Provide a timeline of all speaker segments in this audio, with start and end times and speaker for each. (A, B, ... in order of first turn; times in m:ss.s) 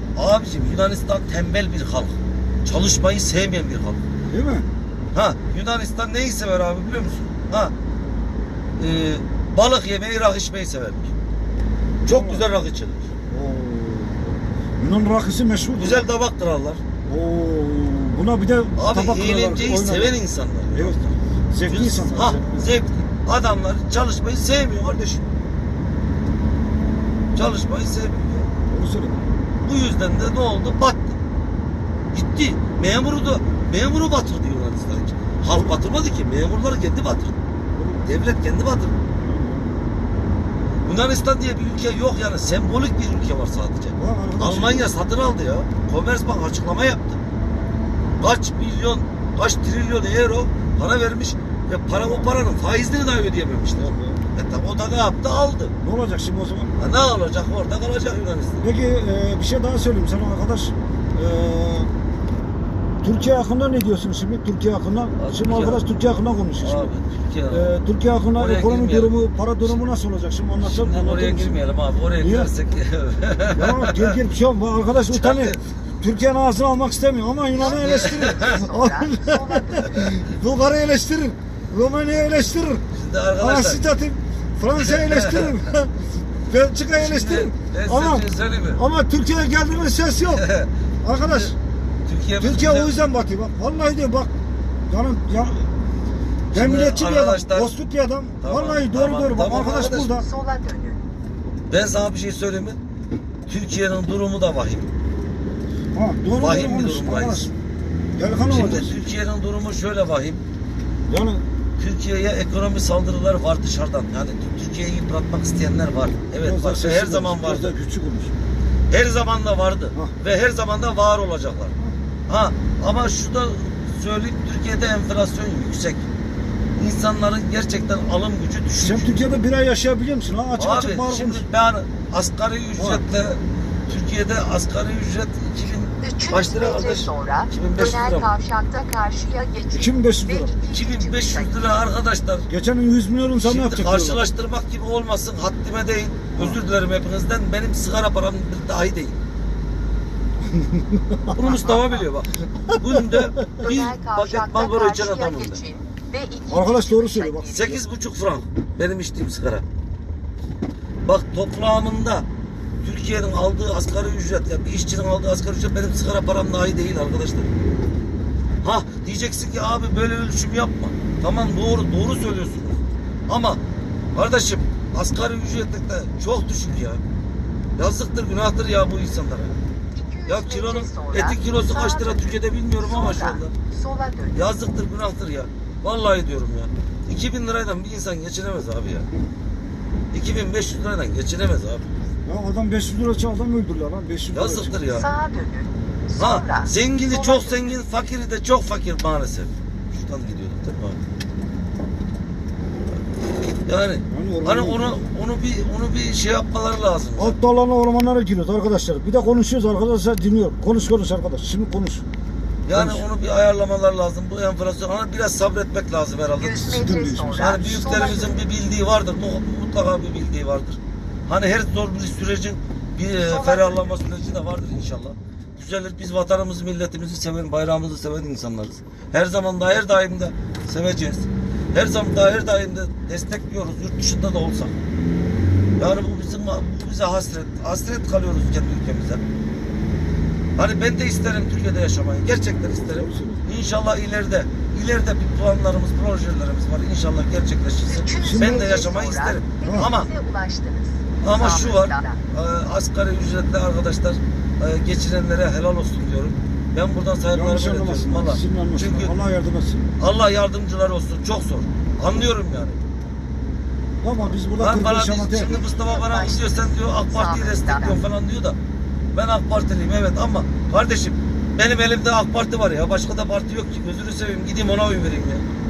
0:00.2-0:04.0 A
0:04.3-0:04.6 B
0:05.1-0:07.7 A
0:08.8-0:11.1 A
0:12.0-0:12.4 B
0:12.0-0:13.1 A
0:13.3-0:16.1 B
0:15.8-0:16.8 A
0:17.0-0:20.2 B
0:18.8-0:21.2 A
0:20.7-0:22.7 B
0:21.7-0:25.3 A
0:27.3-0:28.5 A
0:28.6-0:29.2 B
0:29.6-0:31.2 A
0:32.1-0:37.4 A
0:37.8-0:38.0 B
0:38.0-0:39.0 A
0:39.2-0:39.8 B
0:40.8-0:47.2 A
0:44.0-0:44.9 B
0:48.2-0:55.7 A
0:51.9-0:52.3 B
0:53.8-0:54.2 B
0:55.8-0:56.8 B
0:56.8-0:58.6 A
0:58.6-1:01.9 B
1:03.0-1:06.9 B
1:05.2-1:05.8 A
1:06.6-1:07.8 A
1:07.5-1:11.6 B
1:08.4-1:09.6 A
1:10.6-1:14.2 A
1:12.2-1:12.5 B
1:13.5-1:22.8 B
1:15.1-1:15.6 A
1:17.6-1:20.1 C
1:17.6-1:18.6 A
1:22.9-1:23.8 A
1:23.4-1:30.4 B
1:24.8-1:25.6 A
1:26.9-1:28.8 A
1:30.3-1:30.7 A
1:31.0-1:31.6 B
1:31.2-1:31.5 A
1:32.0-1:33.0 A
1:32.4-1:34.3 B
1:34.9-1:35.7 B
1:36.5-1:37.7 A
1:36.5-1:40.3 B
1:38.4-1:40.2 A
1:40.2-1:41.0 C
1:41.7-1:42.8 A
1:43.5-1:44.9 A
1:45.9-1:47.5 B
1:46.4-1:47.5 A
1:48.2-1:49.0 B
1:48.5-1:50.4 A
1:51.1-1:51.4 B
1:51.8-1:57.8 A
1:56.4-1:58.3 B
1:58.9-2:01.7 A
2:02.3-2:06.1 A
2:06.8-2:09.3 A
2:08.8-2:11.5 B
2:10.6-2:18.3 A
2:12.8-2:13.0 B
2:16.0-2:21.6 C
2:19.7-2:20.5 B
2:20.7-2:22.5 A
2:22.5-2:24.2 B
2:23.4-2:29.2 A
2:30.5-2:31.4 B
2:31.3-2:35.6 A
2:31.4-2:32.0 C
2:32.7-2:33.4 B
2:33.6-2:37.8 C
2:36.5-2:37.8 B
2:37.5-2:39.6 A
2:41.0-2:42.2 A
2:42.8-2:47.5 A
2:48.6-2:53.6 A
2:54.1-2:57.0 A
2:57.8-2:59.5 A
3:00.0-3:04.5 C
3:00.3-3:03.5 A
3:04.3-3:09.1 A
3:10.1-3:11.9 A
3:12.2-3:14.8 B
3:14.3-3:15.1 A
3:14.9-3:17.8 C
3:16.2-3:21.0 A
3:23.5-3:27.4 A
3:24.1-3:25.1 B
3:27.2-3:32.0 B
3:32.7-3:54.8 A
3:32.7-3:33.0 B
3:36.4-3:38.4 C
3:36.7-3:37.6 B
3:43.2-3:44.0 C
3:55.8-3:59.2 A
4:00.6-4:10.1 A
4:02.9-4:03.5 B
4:07.9-4:12.2 C
4:08.2-4:08.9 B
4:09.6-4:09.9 B
4:11.2-4:19.1 A
4:17.3-4:19.9 B
4:20.0-4:22.8 A
4:24.0-4:25.6 B
4:24.6-4:28.6 A
4:25.5-4:28.0 C
4:29.1-4:35.4 A